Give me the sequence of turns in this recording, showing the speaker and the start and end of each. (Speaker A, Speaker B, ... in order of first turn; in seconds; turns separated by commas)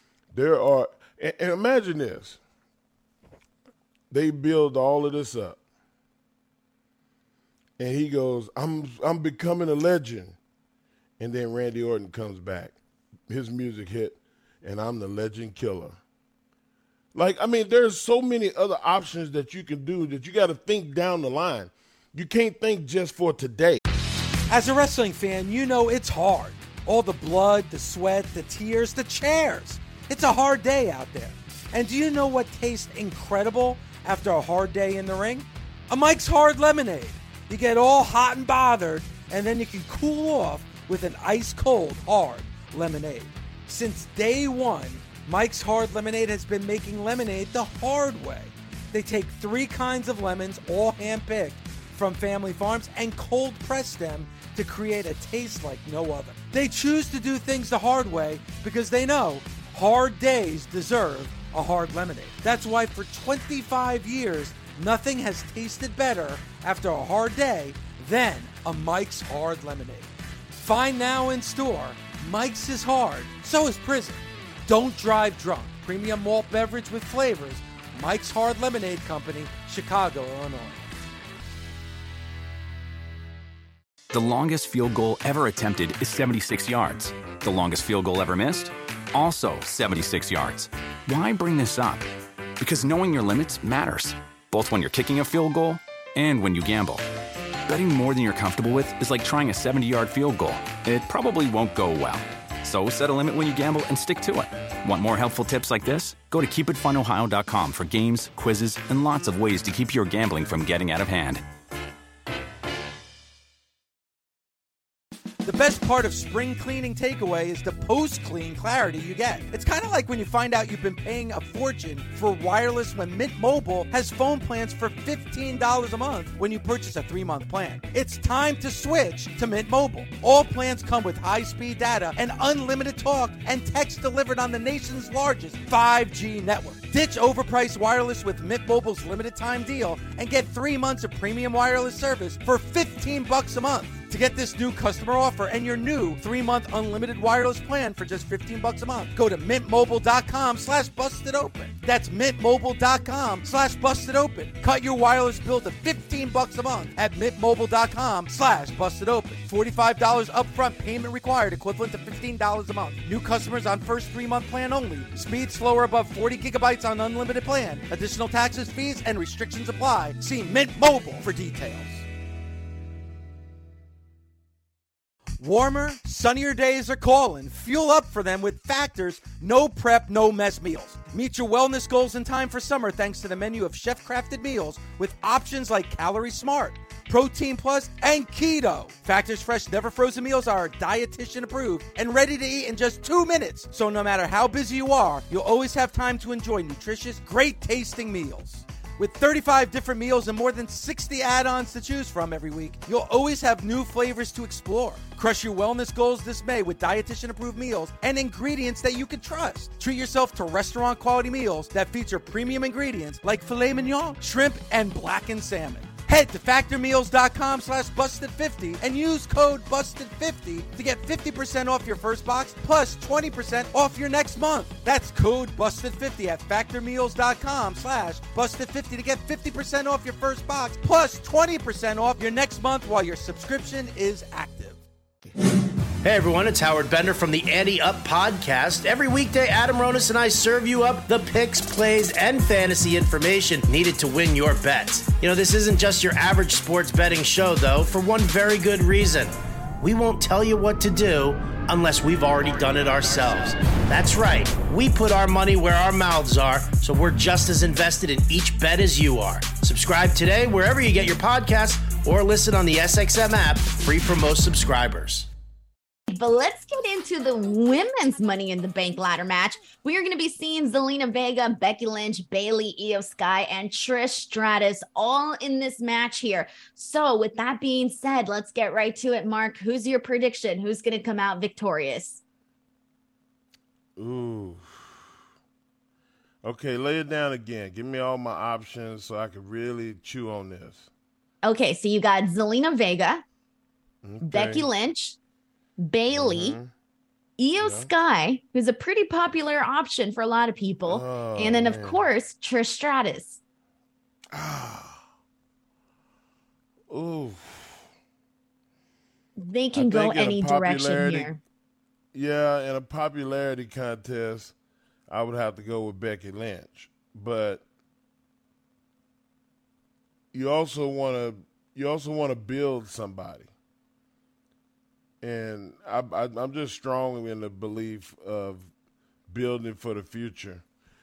Speaker A: 0.3-2.4, Speaker A: 4.1-5.6, Speaker A: 7.8-10.4, Speaker A: 11.2-12.8, Speaker A: 13.3-16.0, Speaker A: 17.1-23.8, Speaker B: 24.5-80.9, Speaker C: 84.1-92.1, Speaker C: 92.6-97.1, Speaker C: 97.7-111.4, Speaker B: 115.4-172.0, Speaker B: 175.4-234.8, Speaker D: 236.0-265.3, Speaker E: 266.1-282.2, Speaker A: 284.0-285.0, Speaker A: 286.4-290.9, Speaker E: 291.4-293.2, Speaker A: 294.0-294.7, Speaker E: 294.2-295.2, Speaker E: 295.8-296.6, Speaker A: 296.1-296.7, Speaker E: 297.4-303.4, Speaker A: 297.6-297.9, Speaker A: 300.9-302.1, Speaker A: 304.3-305.0, Speaker A: 306.9-307.8, Speaker E: 309.4-311.4, Speaker A: 309.8-311.3, Speaker A: 312.1-314.6, Speaker A: 315.1-317.6, Speaker A: 320.3-323.5, Speaker A: 325.2-328.7, Speaker A: 329.3-330.6